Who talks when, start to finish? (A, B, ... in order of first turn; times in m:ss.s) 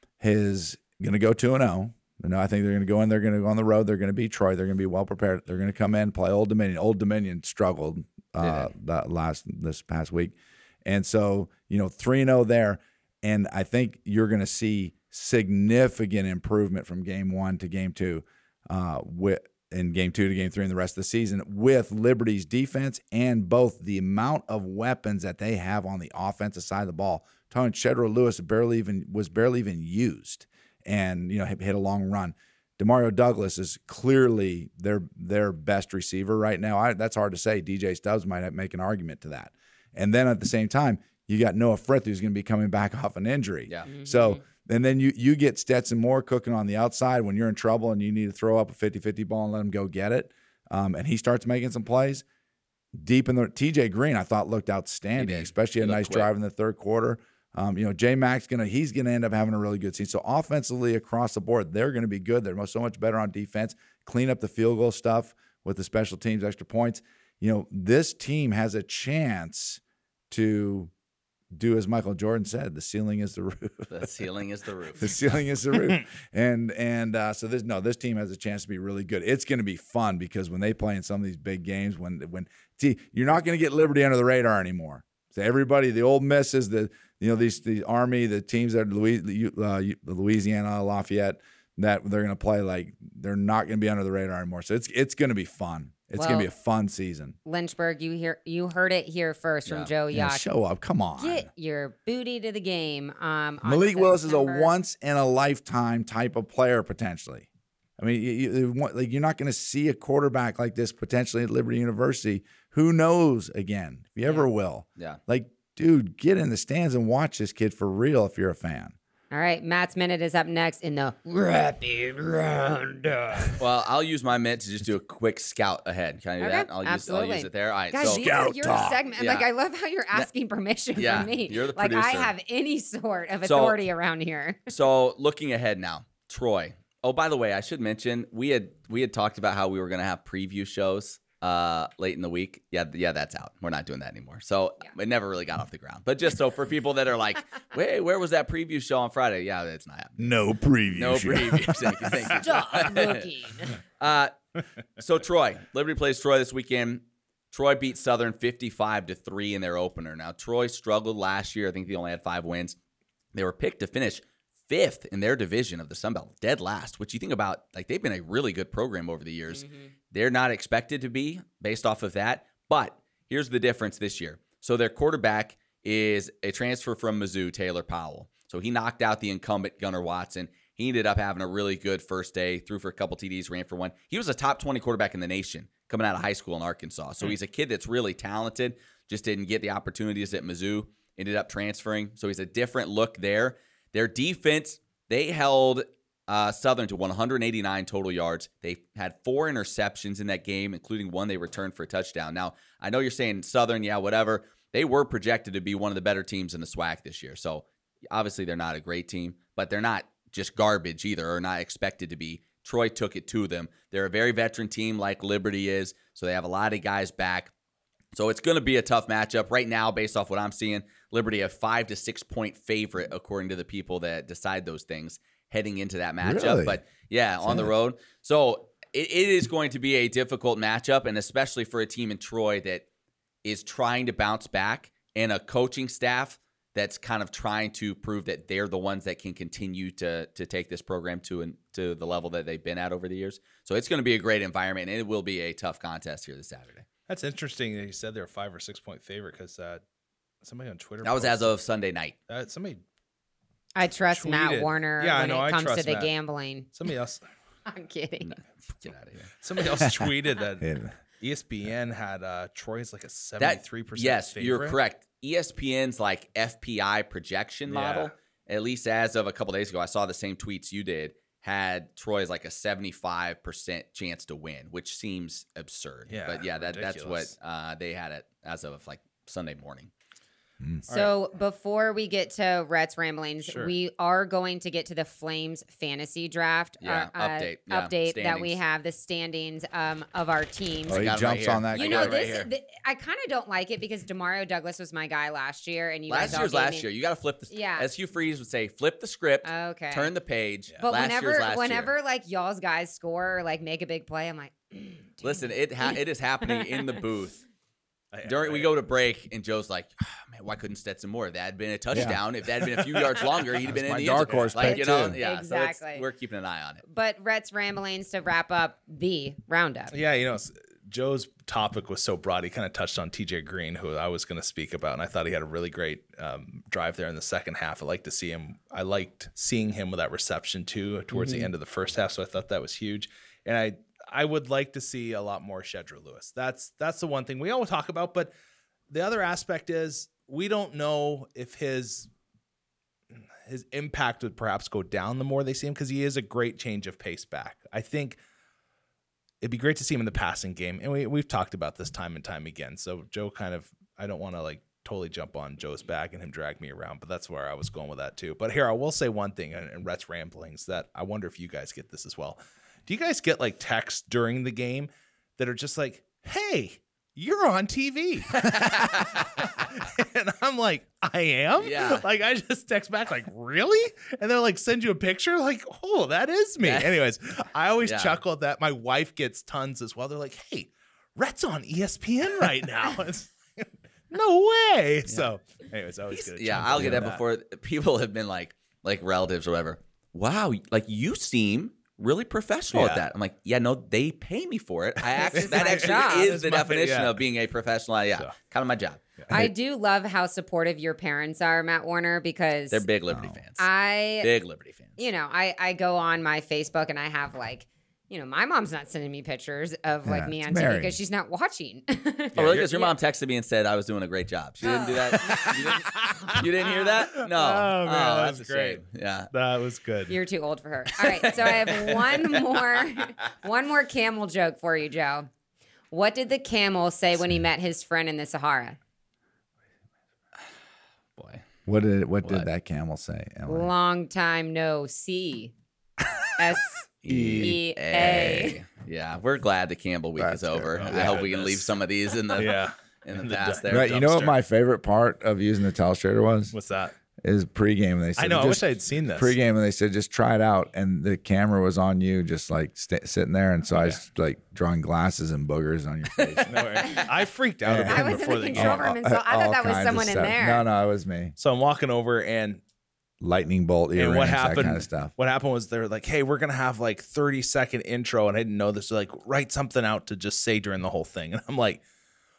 0:00.2-0:52.2 A
0:08.4-0:08.7 B
0:43.9-0:44.4 C
0:53.0-1:10.9 A
0:55.2-0:56.3 B
1:11.5-1:14.1 A
1:13.9-1:15.4 B
1:15.0-1:37.4 A
1:36.2-1:36.5 C
1:37.5-1:40.5 C
1:40.1-1:41.5 A
1:41.2-1:44.7 C
1:43.6-1:47.5 A
1:48.0-1:59.0 A
1:59.3-2:03.6 C
2:03.6-2:09.5 B
2:06.4-2:14.7 C
2:08.0-2:09.0 A
2:11.0-2:12.3 B
2:13.4-2:13.8 B
2:14.7-2:30.3 B
2:30.2-2:32.6 A
2:30.9-2:33.3 B
2:32.4-2:33.8 C
2:34.0-2:34.3 B
2:35.0-2:42.8 B
2:43.3-3:37.5 B
2:49.6-2:49.8 C
3:38.1-3:52.8 B
3:46.2-3:46.8 A
3:47.4-3:47.7 A
3:53.4-4:06.9 B
4:07.1-4:09.8 D
4:10.4-4:11.6 D
4:11.0-4:12.2 B
4:12.3-4:12.8 D
4:13.8-4:16.7 C
4:14.1-4:16.1 D
4:16.7-4:17.2 D
4:17.7-4:18.4 C
4:18.2-4:19.3 B
4:19.4-4:24.8 D
4:20.6-4:21.0 A
4:23.4-4:39.9 B
4:27.7-4:28.1 D
4:36.1-4:37.4 D
4:40.9-4:51.1 C
4:43.4-4:43.7 D
4:46.8-4:48.6 B
4:50.9-4:52.2 A
4:50.9-4:52.5 B
4:51.7-4:56.9 C
4:56.1-5:01.9 B
4:57.5-4:57.9 C
4:59.4-5:00.1 C
5:00.7-5:00.9 D
5:00.8-5:07.0 C
5:05.2-5:07.4 B
5:08.1-5:08.7 D
5:08.2-5:16.8 B
5:11.9-5:12.2 A
5:12.0-5:14.5 D
5:13.6-5:15.2 A
5:14.6-5:16.0 C
5:16.8-5:20.0 C
5:19.9-5:38.3 D
5:31.1-5:31.5 C
5:38.9-5:42.1 D
5:43.1-5:48.2 D
5:49.4-6:27.2 D
6:08.4-6:09.2 B
6:11.6-6:12.0 B
6:16.6-6:17.0 B
6:17.8-6:18.2 B
6:25.0-6:25.3 B
6:26.3-6:39.2 B
6:32.7-6:33.0 D
6:35.1-6:36.3 C
6:35.3-6:37.2 D
6:39.3-6:42.8 C
6:42.7-6:45.0 B
6:43.1-6:43.4 A
6:43.6-6:44.3 C
6:45.0-6:52.9 C
6:50.1-6:51.0 A
6:52.4-6:52.7 D
6:52.4-6:59.3 B
6:54.6-6:55.6 C
6:54.7-7:00.2 D
7:00.1-7:05.3 C
7:01.4-7:01.9 D
7:05.9-7:08.8 C
7:11.2-7:11.4 B
7:11.7-7:13.7 A
7:13.5-7:15.5 C
7:16.4-7:16.8 C
7:17.0-7:24.1 B
7:17.1-7:17.6 A
7:17.3-7:18.6 C
7:20.2-7:21.2 A
7:20.7-7:21.7 D
7:22.3-7:24.4 D
7:23.7-7:26.6 A
7:26.5-7:27.0 D
7:27.2-7:36.8 A
7:28.2-7:29.3 D
7:36.5-7:38.9 D
7:37.6-7:41.4 A
7:37.8-7:40.6 C
7:41.4-7:42.6 D
7:43.2-7:45.1 A
7:44.0-7:51.8 D